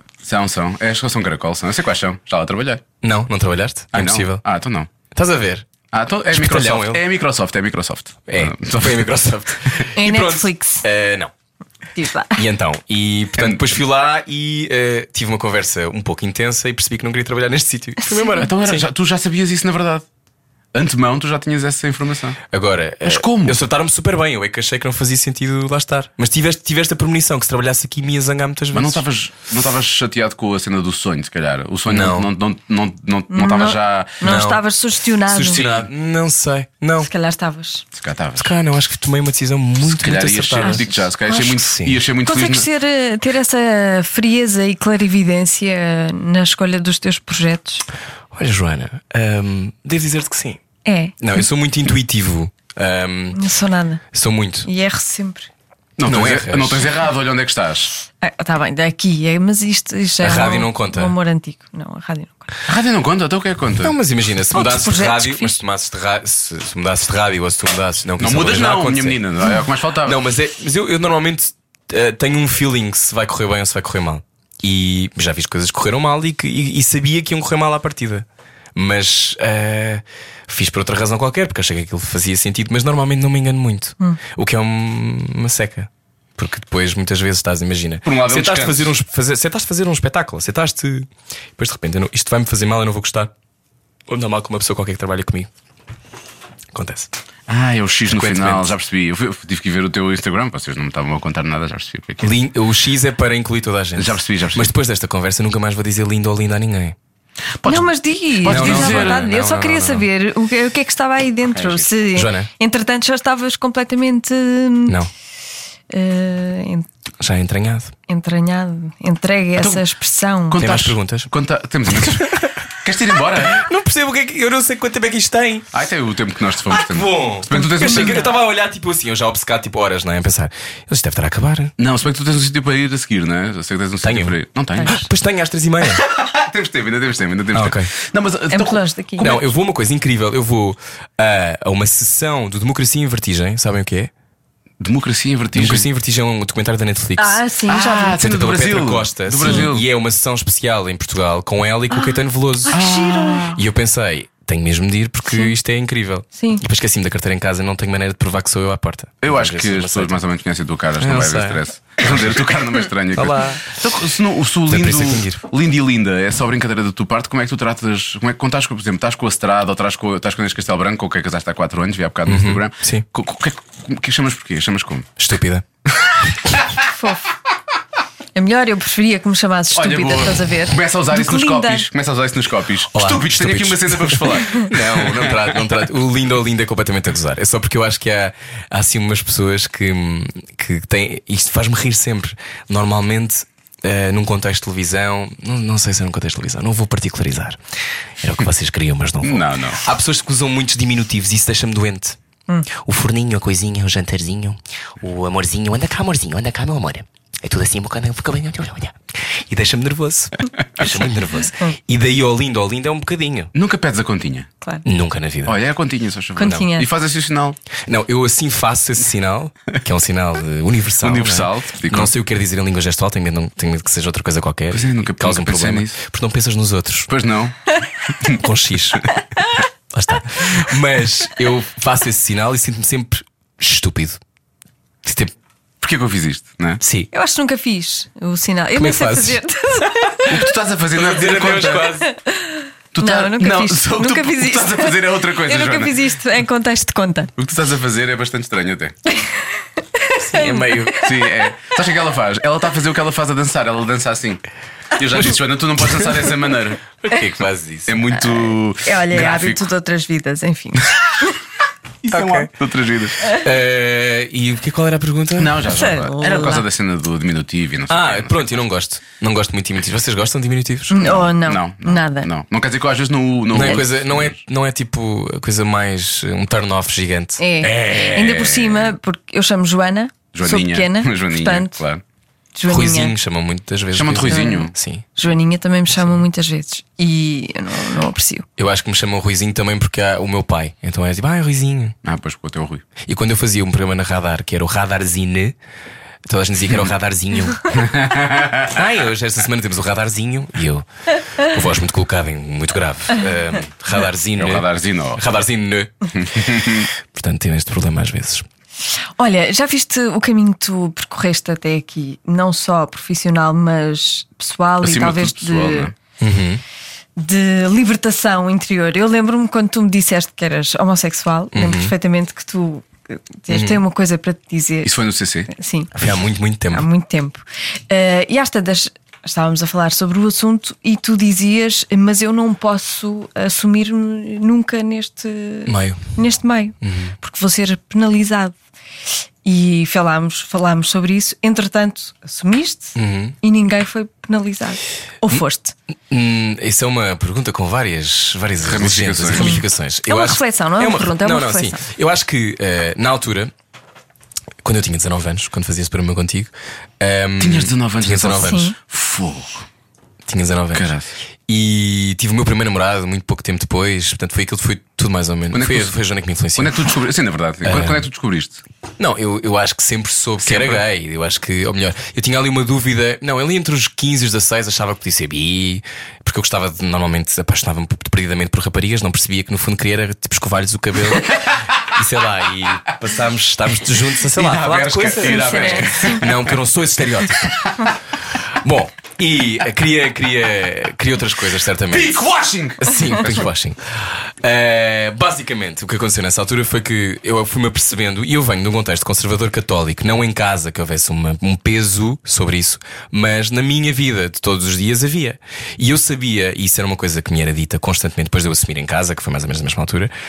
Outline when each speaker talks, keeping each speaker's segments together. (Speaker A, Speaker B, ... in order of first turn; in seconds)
Speaker A: 0.2-2.8, 3.9-4.9, 5.9-9.1, 13.3-13.6, 18.4-20.0, 20.7-22.4, 23.0-23.6, 28.7-34.2, 35.6-35.9, 37.9-38.5, 39.8-42.7, 56.0-57.9, 62.6-63.9, 68.2-70.2, 88.0-88.9, 97.5-102.3, 104.0-104.7, 107.6-109.3, 111.5-111.9, 119.6-119.8, 120.5-123.6, 125.7-128.3, 131.8-135.0, 136.0-139.4, 144.8-145.9, 147.7-149.8, 152.7-153.6, 159.2-175.1, 176.0-176.6, 179.7-185.6, 199.2-199.8, 213.5-214.5, 215.4-217.6, 221.0-222.1, 224.7-226.0, 227.1-227.6, 228.1-228.4, 235.8-236.8, 240.3-241.9, 242.9-245.9, 247.4-248.9, 250.9-254.4, 254.9-256.8, 257.9-259.6, 262.0-263.2, 265.4-268.4, 271.0-274.4, 277.7-278.6, 280.3-282.0, 283.9-284.7, 292.0-292.8, 297.7-298.8, 304.4-305.2, 306.1-306.9, 314.8-315.9, 324.8-325.5, 348.6-349.6, 357.4-359.6, 360.7-361.1, 365.5-365.9, 366.6-368.6, 370.4-370.8, 384.3-386.6, 391.9-393.5
Speaker B: 3.0-4.4, 5.1-5.7, 6.3-7.0, 8.3-11.3, 12.3-18.8, 22.5-29.0, 31.9-32.3, 34.2-34.6, 35.3-37.1, 38.4-42.0, 48.3-50.6, 51.2-53.4, 54.1-54.7, 56.0-56.9, 60.2-61.1, 63.8-69.2, 70.0-93.3, 94.1-95.5, 96.7-97.1, 98.1-98.7, 102.2-107.0, 108.4-110.0, 112.1-112.5, 117.2-117.9, 120.6-121.3, 122.0-122.6, 123.4-125.7, 126.7-131.7, 134.0-136.1, 137.5-137.9, 139.2-144.1, 145.5-147.4, 148.1-152.9, 153.5-160.2, 161.0-161.6, 163.1-163.8, 164.7-165.4, 172.2-173.0, 175.2-175.6, 182.9-197.6, 198.2-202.2, 202.7-213.5, 214.8-215.6, 216.4-216.7, 217.9-227.1, 228.2-229.1, 229.9-234.2, 235.0-235.3, 236.8-237.1, 238.7-239.4, 240.9-242.1, 250.2-251.1, 257.0-258.1, 262.1-262.5, 263.2-265.7, 267.9-271.1, 273.5-278.4, 282.7-285.0, 288.6-291.9, 293.0-295.5, 296.2-297.9, 298.6-306.1, 307.1-308.4, 316.2-316.6, 321.5-321.9, 323.5-323.8, 325.9-326.9, 335.7-336.1, 336.8-337.1, 342.9-343.4, 346.1-353.5, 354.6-358.7, 360.3-360.9, 361.5-366.9, 367.6-368.0, 369.0-387.7, 388.6-392.2, 392.8-410.1
Speaker C: 9.9-10.8, 11.9-12.4, 18.0-18.5, 33.3-35.7, 37.0-37.8, 40.6-41.4, 42.2-47.8, 50.8-51.4, 53.3-54.0, 54.6-55.5, 58.2-62.5, 64.5-65.6, 107.6-115.0, 115.9-116.9, 118.1-120.6, 127.5-128.3, 134.8-135.0, 138.5-139.4, 147.2-148.2, 152.7-153.6, 156.3-156.6, 176.9-177.3, 178.3-181.8, 216.3-216.9, 237.1-240.4, 242.0-247.3, 249.1-251.0, 258.3-261.3, 265.7-266.6, 270.9-272.3, 277.4-281.8, 282.5-283.1, 284.2-288.4, 309.2-315.9, 317.2-324.9, 325.5-325.9, 326.7-338.6, 339.4-345.7, 349.3-351.8, 358.4-358.7, 385.2-386.2